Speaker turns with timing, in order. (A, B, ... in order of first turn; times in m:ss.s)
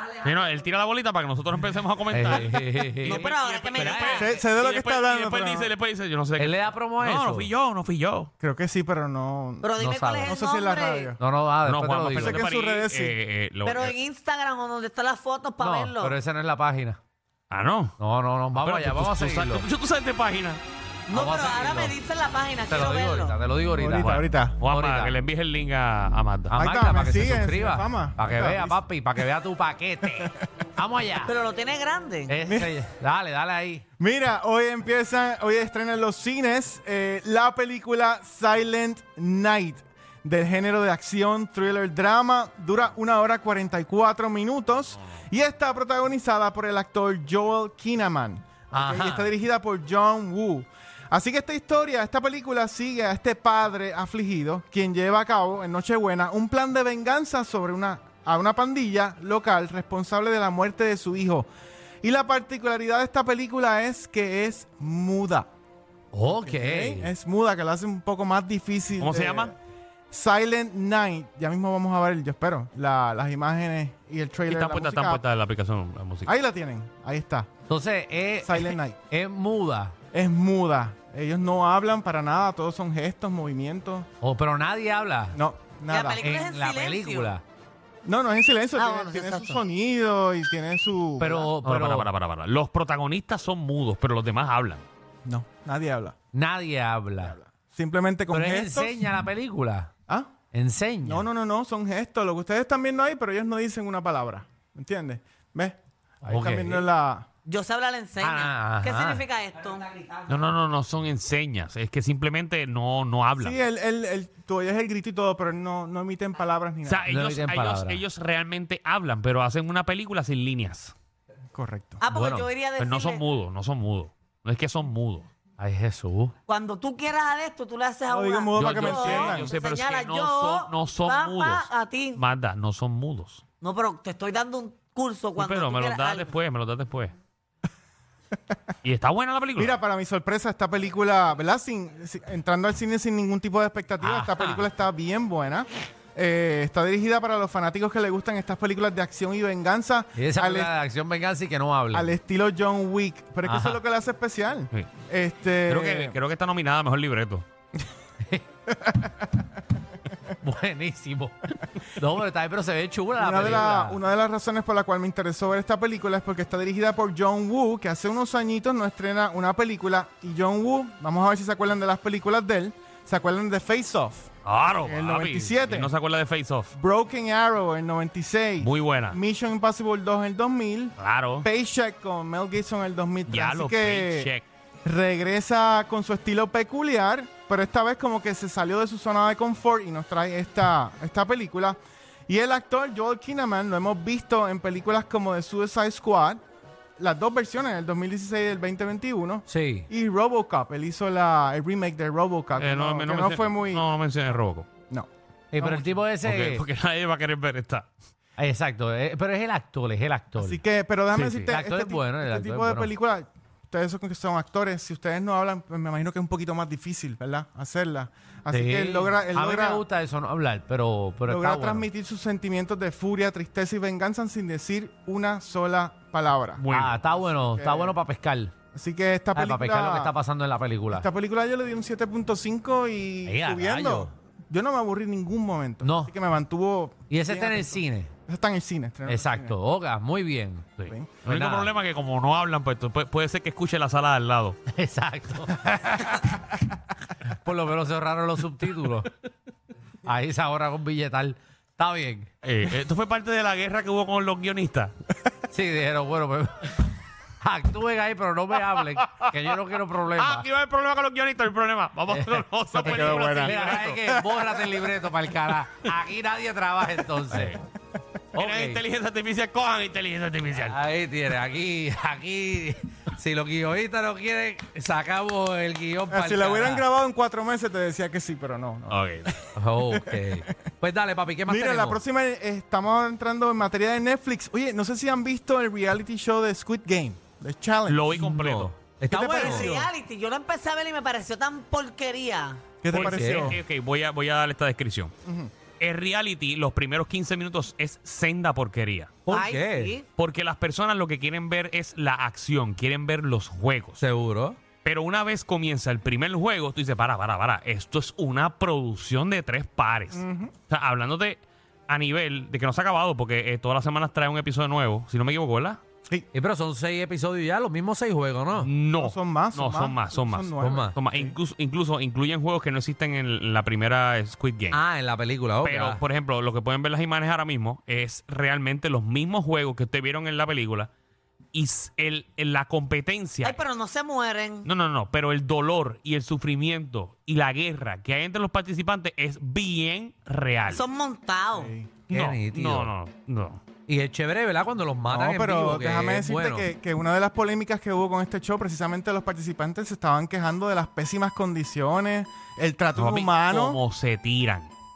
0:00.2-0:08.3 A
0:02.1-0:04.2 B
0:03.0-0:04.4 C
0:04.2-0:05.7 D
0:06.4-0:07.5 B
0:08.4-0:09.7 D
0:09.6-0:11.1 C
0:09.8-0:10.4 B
0:10.2-0:11.2 D
0:11.2-0:12.4 B
0:11.6-0:14.0 A
0:12.1-0:13.2 D
0:13.6-0:16.2 C
0:15.6-0:17.0 B
0:17.5-0:18.0 A
0:18.0-0:19.7 B
0:18.5-0:20.6 A
0:21.1-0:22.0 B
0:21.1-0:23.4 C
0:22.7-0:25.2 B
0:23.7-0:24.6 D
0:24.0-0:26.6 A
0:26.5-0:31.4 B
0:26.5-0:28.8 D
0:31.2-0:32.3 C
0:32.3-0:33.8 B
0:32.4-0:32.7 D
0:34.0-1:01.5 D
0:48.7-0:49.3 B
1:02.0-1:05.5 D
1:06.1-1:07.1 B
1:06.4-1:09.6 D
1:09.0-1:09.5 A
1:10.1-1:15.2 D
1:14.5-1:16.3 A
1:16.3-1:17.5 D
1:17.7-1:19.9 B
1:18.4-1:19.0 D
1:20.1-1:24.1 D
1:24.2-1:25.4 B
1:25.3-1:26.2 D
1:25.9-1:27.3 C
1:26.2-1:27.4 B
1:28.0-1:31.5 D
1:28.8-1:29.6 C
1:31.2-1:32.1 B
1:31.6-1:34.9 A
1:35.2-1:36.2 D
1:36.3-1:37.4 B
1:37.2-1:39.0 D
1:38.3-1:39.9 B
1:40.5-1:41.3 B
1:41.0-1:47.3 D
1:46.2-1:46.9 B
1:47.5-1:50.0 C
1:48.2-1:49.2 B
1:50.3-1:53.6 A
1:53.4-1:57.1 D
1:56.8-2:00.9 A
1:57.1-1:58.0 B
2:01.5-2:02.0 D
2:02.0-2:03.2 C
2:02.1-2:02.5 B
2:02.8-2:05.3 A
2:05.6-2:06.4 B
2:06.5-2:12.2 C
2:08.1-2:09.5 D
2:08.6-2:13.4 A
2:13.6-2:16.3 C
2:15.4-2:17.1 A
2:18.8-2:19.8 A
2:19.6-2:30.7 D
2:24.0-2:24.7 B
2:30.2-2:32.1 B
2:31.9-2:36.2 D
2:33.4-2:33.8 B
2:35.7-2:37.4 A
2:38.8-2:39.1 D
2:40.4-2:44.0 B
2:43.2-2:54.3 D
2:54.4-2:56.7 A
2:54.8-2:55.9 D
2:56.7-3:04.3 D
2:58.6-2:59.2 A
3:01.0-3:01.5 A
3:03.3-3:04.5 A
3:04.8-3:16.4 D
3:17.0-3:23.8 D
3:19.5-3:19.9 B
3:22.6-3:24.7 A
3:24.9-3:25.9 D
3:25.5-3:26.6 B
3:26.2-3:27.9 A
3:28.4-3:30.6 B
3:30.4-3:39.8 D
3:31.1-3:31.5 A
3:31.4-3:32.9 B
3:38.5-3:41.9 B
3:41.3-3:48.0 D
3:46.6-3:47.0 A
3:46.7-3:48.5 B
3:48.7-3:50.1 D
3:49.3-3:51.1 B
3:50.9-3:59.6 D
3:53.2-3:54.1 B
3:55.8-3:56.1 B
3:57.1-3:58.1 B
3:59.1-4:00.7 B
4:00.8-4:04.6 A
4:00.9-4:01.2 D
4:01.2-4:01.7 B
4:04.7-4:06.4 B
4:07.3-4:09.1 B
4:10.0-4:12.3 B
4:12.4-4:14.9 A
4:15.5-4:16.9 B
4:17.4-4:20.4 B
4:19.0-4:19.5 A
4:20.2-4:24.0 A
4:22.1-4:27.6 B
4:22.7-4:24.7 D
4:27.3-4:27.6 A
4:28.3-4:28.8 B
4:28.4-4:30.8 A
4:30.6-4:36.9 B
4:36.1-4:40.5 D
4:38.9-4:39.3 A
4:39.6-4:42.0 B
4:41.5-4:48.3 D
4:47.9-4:48.7 A
4:48.2-4:49.8 B
4:49.1-4:49.9 D
4:49.3-4:52.6 C
4:52.8-4:53.6 D
4:52.9-4:53.6 B
4:52.9-4:55.1 A
4:55.3-4:55.5 D
4:55.8-4:59.2 A
4:59.3-4:59.9 B
4:59.3-5:00.1 C
5:00.2-5:04.0 A
5:04.0-5:04.6 B
5:04.8-5:15.8 A
5:10.1-5:10.6 D
5:16.3-5:18.7 B
5:18.6-5:24.8 A
5:19.0-5:21.4 D
5:20.6-5:21.0 B
5:24.7-5:26.0 B
5:25.6-5:30.9 A
5:31.5-5:33.6 A
5:33.4-5:34.7 C
5:34.6-5:40.8 A
5:40.7-5:41.7 C
5:41.6-5:41.9 D
5:42.1-5:43.6 A
5:42.1-5:42.9 B
5:43.9-5:46.7 B
5:45.1-5:53.8 D
5:52.9-5:54.7 A